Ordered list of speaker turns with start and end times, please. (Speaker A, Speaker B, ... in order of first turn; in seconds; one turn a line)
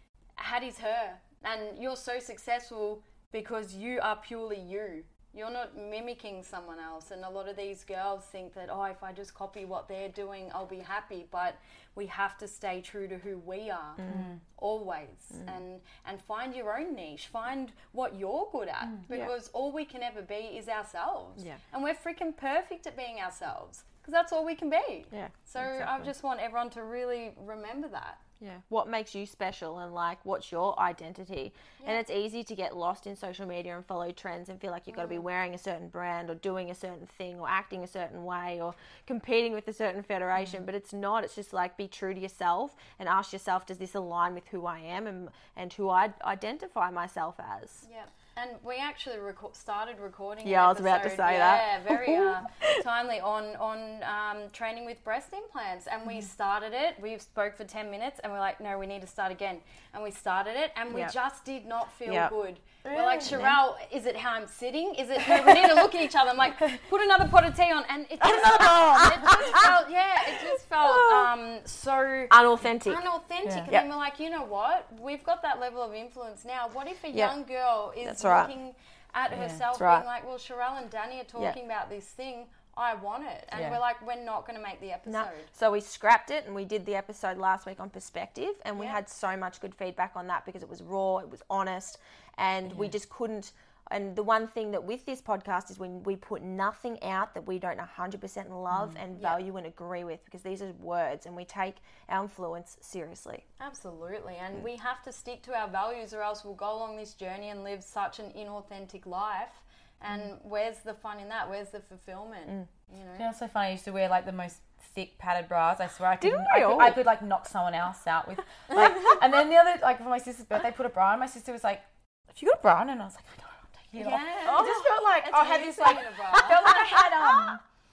Speaker A: 0.4-28.2
Speaker B: 14.0-14.3
Speaker C: 14.1-14.4
Speaker B: 25.1-26.1
Speaker B: 28.4-47.9
Speaker A: 34.9-35.3
Speaker A: 47.9-85.5
Speaker B: 50.4-52.8
Speaker B: 62.1-62.3
Speaker C: 62.8-63.6
Speaker B: 63.3-63.5
Speaker B: 68.2-69.7
Speaker C: 68.6-69.7
Speaker B: 70.8-71.3
Speaker B: 72.3-73.0
Speaker C: 73.4-73.7
Speaker B: 78.0-78.5
Speaker C: 79.3-79.6
Speaker B: 79.7-80.1
Speaker C: 83.5-83.8
Speaker B: 85.1-103.5
Speaker A: 88.7-89.0
Speaker C: 98.7-99.0
Speaker A: 103.6-113.3
Speaker C: 113.2-127.6
Speaker B: 116.2-117.0
Speaker B: 118.7-119.2
Speaker A: 124.0-126.8
Speaker B: 124.5-124.9
Speaker B: 126.6-127.6